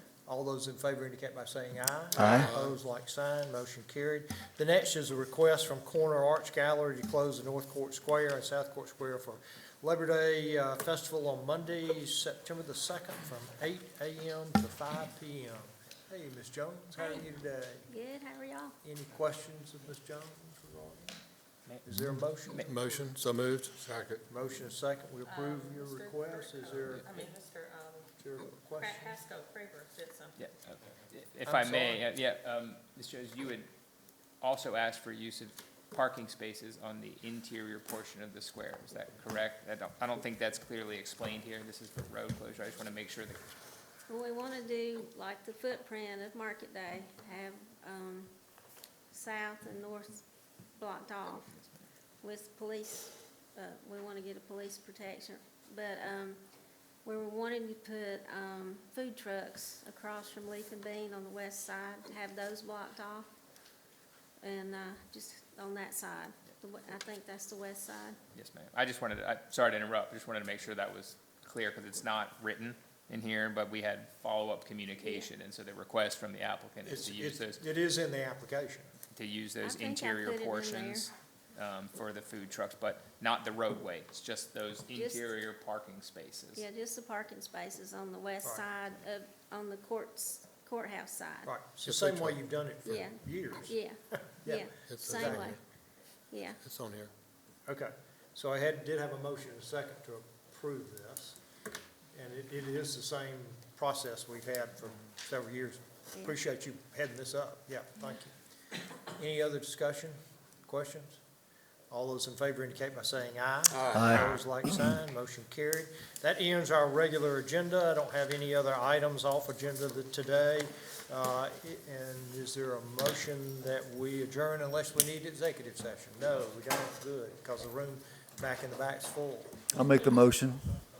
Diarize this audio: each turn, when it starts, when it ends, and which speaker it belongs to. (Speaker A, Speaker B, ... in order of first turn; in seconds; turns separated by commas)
Speaker A: 0.3-17.9, Speaker B: 2.2-2.5, Speaker C: 2.3-2.7, Speaker D: 17.9-18.8, Speaker A: 18.8-21.2, Speaker A: 21.9-22.7, Speaker C: 22.6-24.2, Speaker A: 24.3-27.4, Speaker E: 25.2-28.1, Speaker A: 28.2-29.2, Speaker E: 28.8-30.4, Speaker F: 30.4-33.7, Speaker A: 31.4-32.0, Speaker F: 34.4-43.4, Speaker D: 44.1-48.3, Speaker D: 49.1-50.2, Speaker D: 50.7-51.5, Speaker D: 52.2-56.4, Speaker D: 57.0-63.3, Speaker D: 64.4-68.2, Speaker F: 68.3-77.6, Speaker D: 75.0-75.3, Speaker A: 76.8-78.9, Speaker F: 79.1-86.6, Speaker D: 79.6-81.1, Speaker D: 84.9-85.3, Speaker D: 86.5-91.5, Speaker A: 91.4-95.5, Speaker C: 91.8-92.5, Speaker D: 92.8-95.6, Speaker C: 94.8-95.6, Speaker D: 96.3-96.6, Speaker C: 96.6-97.1, Speaker A: 97.7-101.4, Speaker A: 102.1-108.3, Speaker A: 109.1-111.2, Speaker A: 111.9-129.7, Speaker C: 113.7-114.2, Speaker B: 113.9-114.9, Speaker B: 129.7-130.7